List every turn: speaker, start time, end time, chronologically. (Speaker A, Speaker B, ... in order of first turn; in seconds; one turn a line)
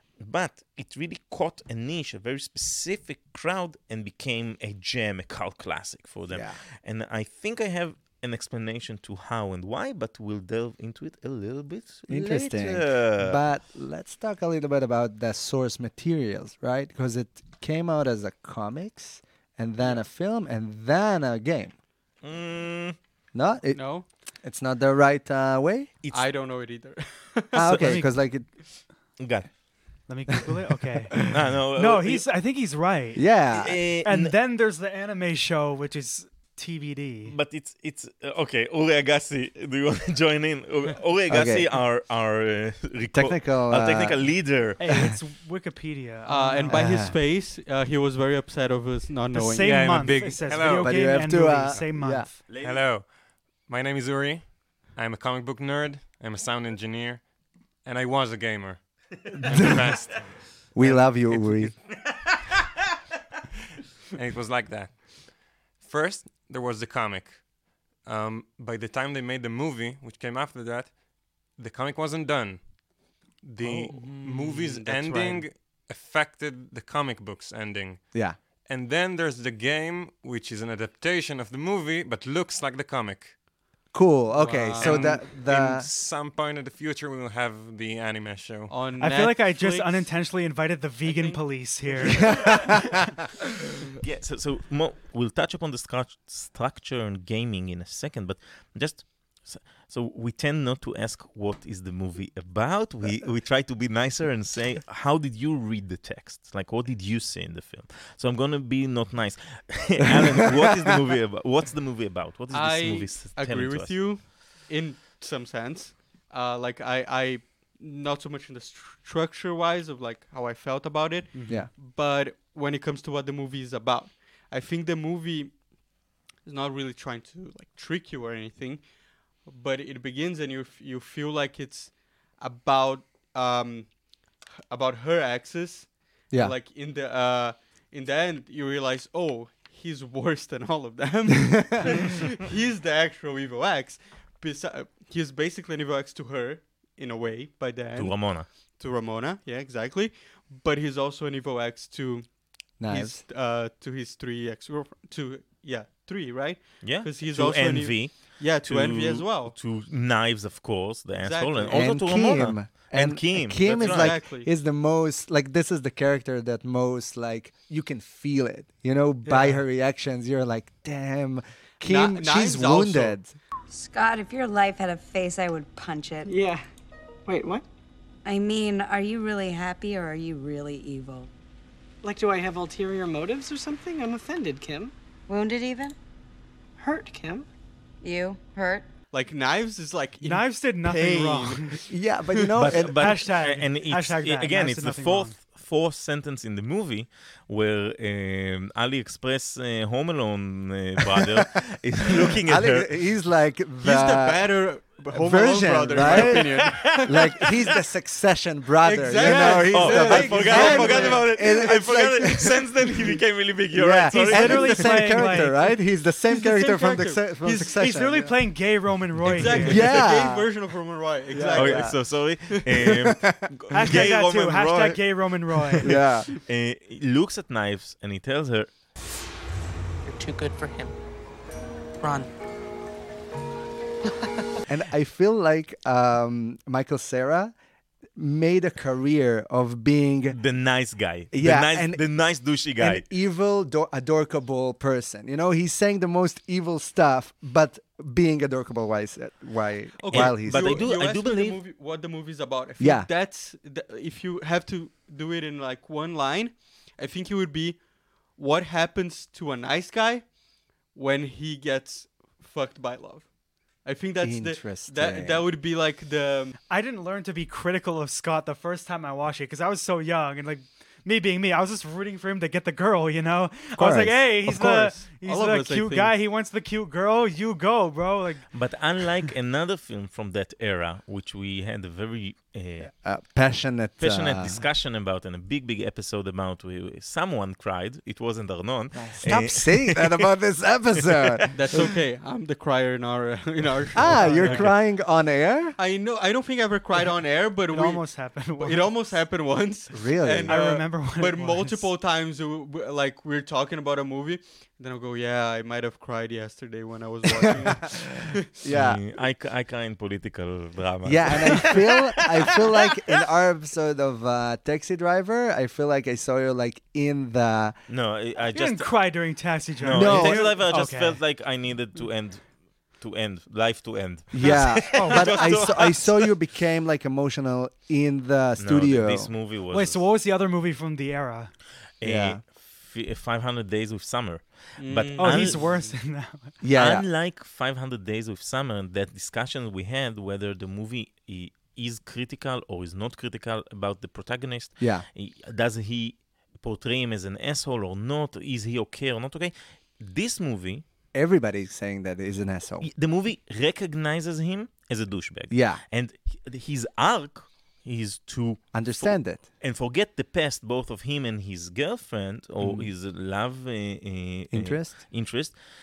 Speaker A: 0.2-13.4
Speaker B: 6.3-6.6
Speaker B: 12.1-21.7
Speaker A: 22.2-23.0
Speaker B: 23.3-25.9
Speaker C: 23.7-24.1
Speaker C: 26.1-27.6
Speaker B: 27.5-28.5
Speaker A: 27.6-27.9
Speaker D: 27.7-28.1
Speaker A: 29.2-29.5
Speaker D: 30.1-31.1
Speaker A: 31.3-32.2
Speaker D: 31.7-33.2
Speaker B: 33.1-33.8
Speaker A: 33.5-34.3
Speaker D: 34.0-37.3
Speaker A: 37.3-44.8
Speaker B: 41.3-41.7
Speaker B: 43.1-44.3
Speaker D: 44.8-47.0
Speaker C: 46.2-49.7
Speaker B: 46.7-47.1
Speaker D: 49.3-52.4
Speaker E: 49.5-51.9
Speaker B: 50.7-52.3
Speaker A: 52.5-52.8
Speaker E: 52.5-61.8
Speaker B: 59.4-59.9
Speaker B: 60.7-61.7
Speaker E: 64.1-83.4
Speaker C: 73.6-75.5
Speaker B: 78.1-78.4
Speaker B: 83.9-85.9
Speaker C: 84.3-85.2
Speaker E: 84.8-88.8
Speaker C: 88.7-90.1
Speaker D: 89.0-92.7
Speaker C: 91.0-92.9
Speaker B: 92.4-92.7
Speaker A: 94.0-114.3
Speaker C: 112.5-125.6
Speaker C: 126.4-128.8
Speaker C: 129.4-133.9
Speaker C: 134.7-152.3
Speaker B: 141.5-141.9
Speaker A: 147.9-148.5
Speaker B: 152.8-153.2
Speaker C: 152.9-159.5
Speaker A: 156.8-164.2
Speaker C: 161.2-161.8
Speaker B: 161.7-173.3
Speaker C: 163.6-164.5
Speaker D: 169.2-169.6
Speaker C: 171.8-173.2
Speaker F: 173.7-176.3
Speaker G: 176.2-176.6
Speaker G: 177.2-177.6
Speaker F: 178.2-181.3
Speaker G: 182.0-184.9
Speaker F: 185.3-185.9
Speaker G: 186.8-187.4
Speaker F: 188.0-188.9
Speaker C: 189.1-191.9
Speaker D: 190.2-191.8
Speaker B: 191.9-193.2
Speaker A: 192.6-202.9
Speaker D: 192.9-195.3
Speaker B: 202.4-212.8
Speaker C: 203.8-207.5
Speaker A: 206.0-207.5
Speaker C: 208.8-211.5
Speaker A: 209.2-215.2
Speaker B: 213.7-218.3
Speaker D: 214.1-215.6
Speaker C: 216.3-217.8
Speaker D: 217.7-219.8
Speaker C: 219.2-222.0
Speaker A: 219.3-219.6
Speaker B: 219.7-220.5
Speaker B: 221.3-222.0
Speaker A: 221.5-225.3
Speaker B: 222.8-223.4
Speaker D: 223.7-225.8
Speaker A: 225.8-228.7
Speaker B: 225.8-226.3
Speaker G: 230.1-230.9
Speaker B: 234.7-237.5
Speaker B: 238.2-240.4
Speaker A: 240.3-243.0
Speaker B: 241.3-242.1
Speaker B: 242.8-250.8
Speaker C: 250.0-260.3
Speaker A: 250.1-251.6
Speaker B: 252.8-253.1
Speaker C: 260.9-263.3
Speaker C: 263.8-266.6
Speaker B: 264.2-265.5
Speaker D: 266.7-278.5
Speaker B: 273.8-274.7
Speaker C: 274.5-276.1
Speaker A: 278.5-282.9
Speaker B: 282.9-284.6
Speaker A: 284.0-290.3
Speaker B: 288.9-291.9
Speaker C: 291.5-294.7
Speaker B: 293.9-295.8
Speaker D: 294.2-294.7
Speaker C: 295.8-298.1
Speaker D: 297.7-299.1
Speaker C: 298.6-308.4
Speaker B: 299.9-300.5
Speaker D: 300.5-301.9
Speaker B: 307.6-309.0
Speaker A: 308.7-312.8
Speaker B: 311.0-317.7
Speaker A: 317.9-326.3
Speaker D: 318.5-321.2
Speaker B: 319.9-320.6
Speaker B: 324.3-329.3
Speaker D: 324.9-325.4
Speaker A: 328.6-330.0
Speaker D: 329.7-331.5
Speaker A: 332.0-335.6
Speaker B: 332.0-332.4
Speaker C: 334.8-335.9
Speaker D: 335.2-336.5
Speaker B: 336.6-337.1
Speaker A: 336.7-350.8
Speaker B: 344.8-345.1
Speaker B: 351.1-352.9
Speaker A: 352.8-365.6
Speaker B: 355.5-355.8
Speaker B: 358.7-359.4
Speaker B: 362.6-362.9
Speaker B: 364.5-365.0